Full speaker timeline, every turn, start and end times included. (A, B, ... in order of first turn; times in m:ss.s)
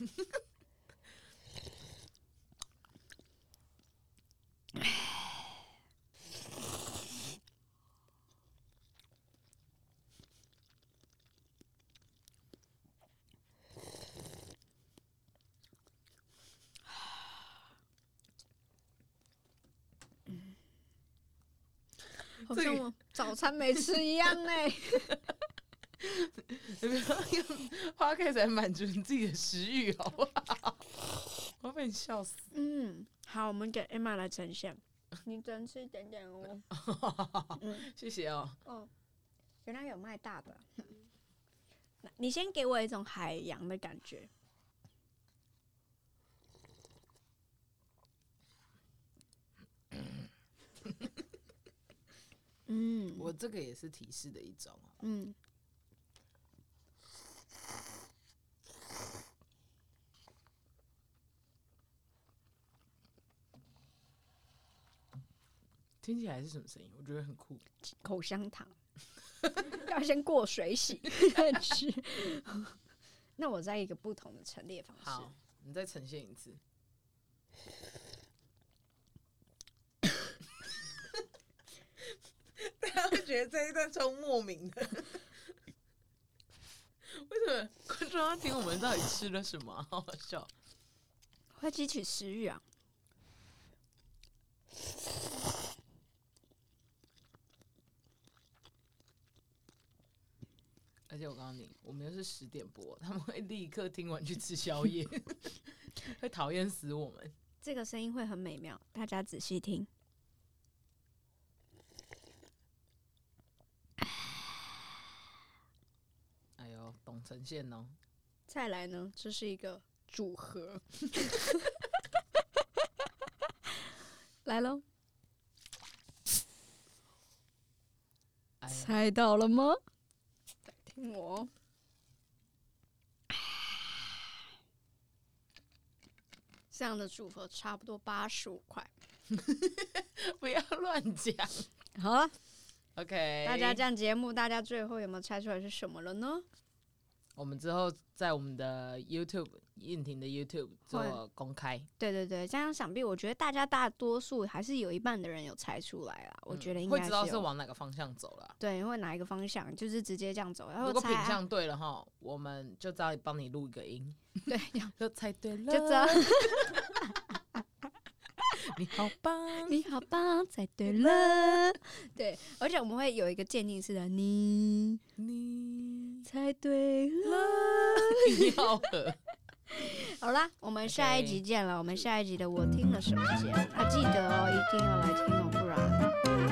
0:04.8-0:05.3 A
0:22.4-0:25.2 A
0:22.5-0:22.8 B
0:26.0-0:30.9 B
0:31.5-0:32.5 B
0:32.5-0:36.7 A
0:36.7-0:38.6 B
0:37.6-0:37.9 A
0:38.6-0:38.9 A
0:39.6-0:40.9 A
0:42.0-0:44.3 A
0:52.7-0:53.3 A
0:53.2-0:55.0 B
0:55.0-0:55.4 A
1:06.0-1:07.6 B
1:07.8-1:08.8 A
1:09.6-1:12.8 A
1:13.4-1:15.3 A
1:15.0-1:16.6 B
1:22.6-1:25.3 B
1:27.0-1:30.5 B
1:31.6-1:32.6 A
1:41.1-1:47.3 B
1:47.6-1:49.9 A
1:56.6-1:58.0 B
1:58.5-2:01.8 A
2:04.4-2:04.8 A
2:08.6-2:09.0 B
2:08.7-2:09.8 A
2:10.7-2:11.5 A
2:13.3-2:13.8 A
2:16.7-2:18.9 A
2:19.3-2:21.7 B
2:22.0-2:22.3 A
2:23.0-2:23.8 B
2:23.4-2:26.5 A
2:27.4-2:31.9 B
2:30.9-2:31.2 A
2:32.0-2:37.5 A
2:36.5-2:38.6 B
2:38.6-2:41.4 A
2:40.8-2:44.2 B
2:44.5-2:44.9 A
2:45.0-2:47.1 B
2:45.7-2:47.4 A
2:48.6-2:49.8 B
2:49.6-2:55.0 A
2:50.9-2:51.6 B
2:55.2-2:56.2 B
2:56.2-2:58.7 A
2:57.2-2:59.2 B
2:59.7-3:06.1 A
3:00.8-3:01.4 B